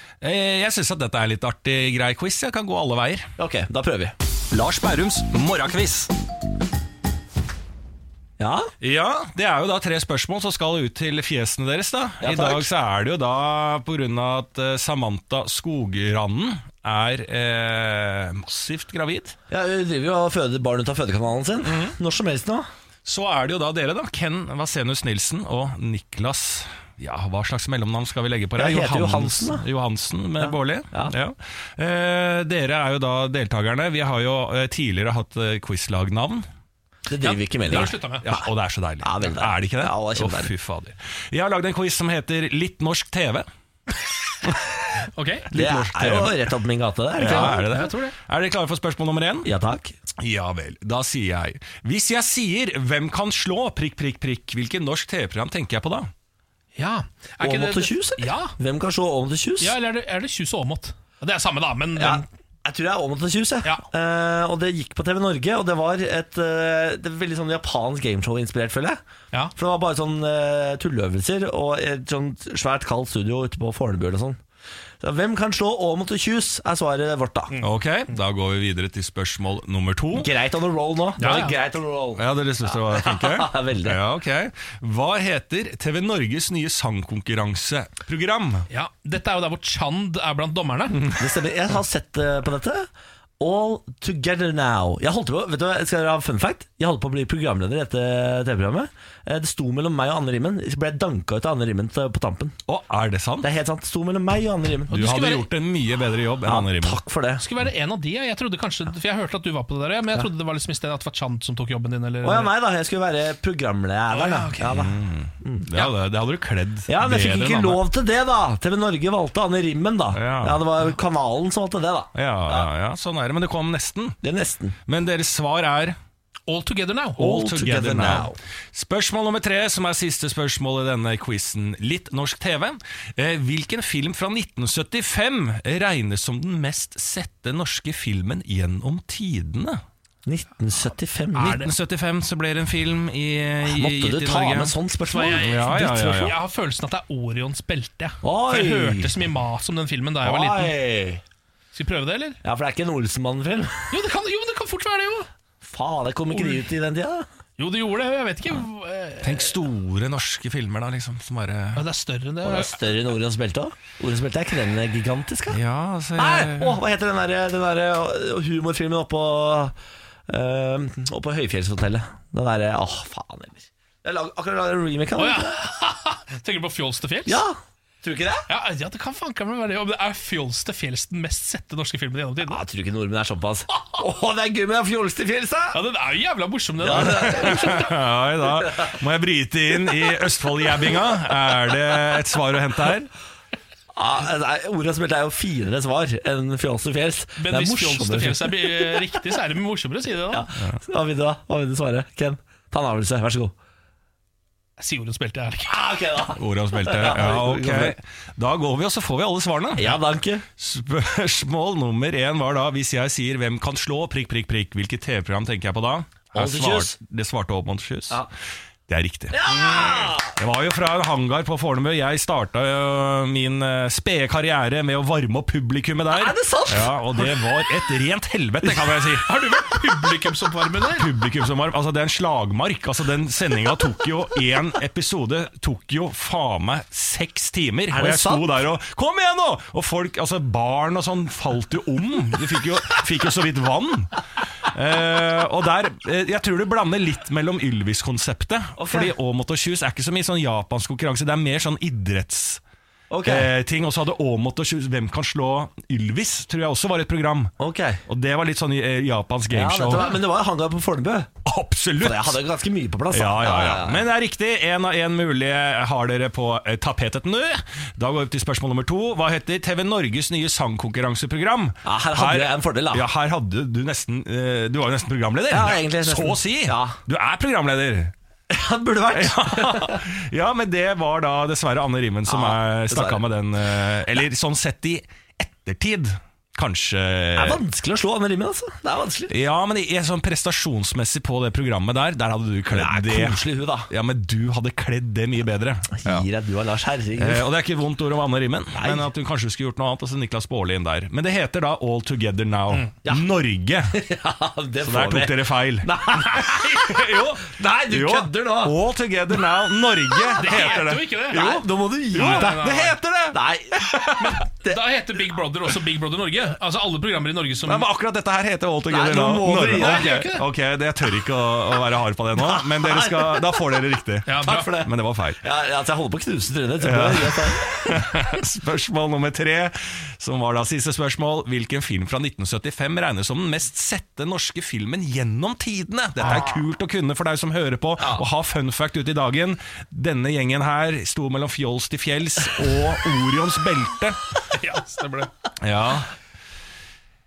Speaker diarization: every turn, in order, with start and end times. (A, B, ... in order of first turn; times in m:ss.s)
0:00.2-0:03.3 A
0:03.4-0:04.1 B
0:04.5-0:06.1 A
0:08.4-0:08.7 B
0:08.8-0:19.4 A
0:12.2-0:12.7 B
0:19.5-0:22.7 B
0:21.6-0:21.9 A
0:23.0-0:36.4 A
0:28.6-0:29.6 B
0:30.4-0:31.1 B
0:37.1-0:38.4 B
0:37.2-0:38.3 C
0:37.7-0:43.4 A
0:39.0-0:40.5 B
0:45.1-0:45.5 C
0:45.5-0:46.5 A
0:45.5-0:47.6 B
0:47.2-0:49.5 A
0:47.2-0:48.2 C
0:49.4-0:49.9 B
0:50.2-0:56.1 A
0:56.8-0:58.5 C
0:57.4-0:59.8 B
0:59.6-1:02.2 C
1:02.0-1:09.0 B
1:09.5-1:14.4 B
1:15.0-1:17.6 B
1:17.6-1:20.3 A
1:20.1-1:24.0 B
1:21.2-1:21.6 C
1:22.2-1:28.6 A
1:28.7-1:31.0 C
1:31.1-1:32.9 B
1:33.4-1:42.6 B
1:42.7-1:43.5 A
1:43.4-1:45.0 B
1:44.9-1:45.4 C
1:44.9-1:47.0 A
1:46.4-1:47.4 B
1:47.4-1:52.5 C
1:52.2-1:55.7 B
1:54.1-1:54.7 C
1:54.6-1:57.8 A
1:56.9-2:02.7 B
2:00.1-2:00.6 A
2:02.1-2:04.2 A
2:04.2-2:04.8 B
2:04.9-2:06.0 A
2:06.5-2:07.2 C
2:07.2-2:08.4 B
2:07.2-2:19.8 A
2:20.2-2:21.6 B
2:21.4-2:21.7 C
2:21.4-2:24.7 A
2:23.6-2:26.4 B
2:25.1-2:30.7 C
2:25.4-2:26.4 A
2:28.2-2:29.1 B
2:30.2-2:31.2 B
2:31.7-2:32.4 C
2:32.4-2:33.9 B
2:33.9-2:35.3 C
2:35.6-2:37.2 B
2:36.3-2:36.6 C
2:37.6-2:39.5 C
2:39.2-2:41.8 A
2:41.8-2:42.8 C
2:42.4-2:45.6 B
2:45.5-2:46.8 A
2:46.2-2:49.8 B
2:50.3-2:55.5 B
2:55.2-2:57.4 C
2:57.2-2:58.5 B
2:58.5-3:02.6 C
3:02.4-3:05.8 B
3:05.7-3:07.9 C
3:06.8-3:07.9 B
3:06.9-3:13.1 A
3:08.6-3:08.9 B
3:13.9-3:19.1 B
3:17.4-3:20.4 C
3:20.3-3:23.5 B
3:24.8-3:25.8 C
3:25.7-3:28.0 B
3:26.4-3:30.0 A
3:29.8-3:30.4 B
3:30.6-3:38.3 A
3:36.4-3:37.0 B
3:38.9-3:49.3 A
3:39.3-3:40.4 B
3:46.1-3:47.3 B
3:49.0-3:51.1 C
3:50.9-4:12.6 A
3:57.9-3:58.5 B
4:08.8-4:09.1 B
4:13.1-4:13.5 B
4:13.2-4:17.5 A
4:17.6-4:18.0 B
4:18.1-4:20.1 A
4:19.5-4:21.3 B
4:21.4-4:22.4 A
4:22.0-4:24.0 B
4:23.1-4:38.1 A
4:31.8-4:33.0 B
4:35.5-4:37.0 B
4:38.5-4:40.0 B
4:39.1-4:47.6 A
4:42.3-4:43.2 B
4:47.4-4:49.3 B
4:49.3-4:56.2 A
4:52.7-4:53.9 B
4:56.0-4:57.4 B
4:57.2-5:04.0 A
4:58.7-4:59.1 B
5:03.9-5:08.8 B
5:04.8-5:11.2 A
5:10.1-5:10.5 B
5:10.4-5:13.0 C
5:11.3-5:12.6 B
5:12.1-5:14.4 A
5:13.3-5:14.8 B
5:14.2-5:17.9 C
5:17.6-5:25.4 A
5:18.9-5:20.1 B
5:19.7-5:20.4 C
5:22.4-5:23.8 B
5:24.2-5:24.7 C
5:24.4-5:28.1 B
5:26.8-5:44.2 A
5:36.2-5:36.5 B
5:44.5-5:45.3 C
5:45.6-5:46.1 A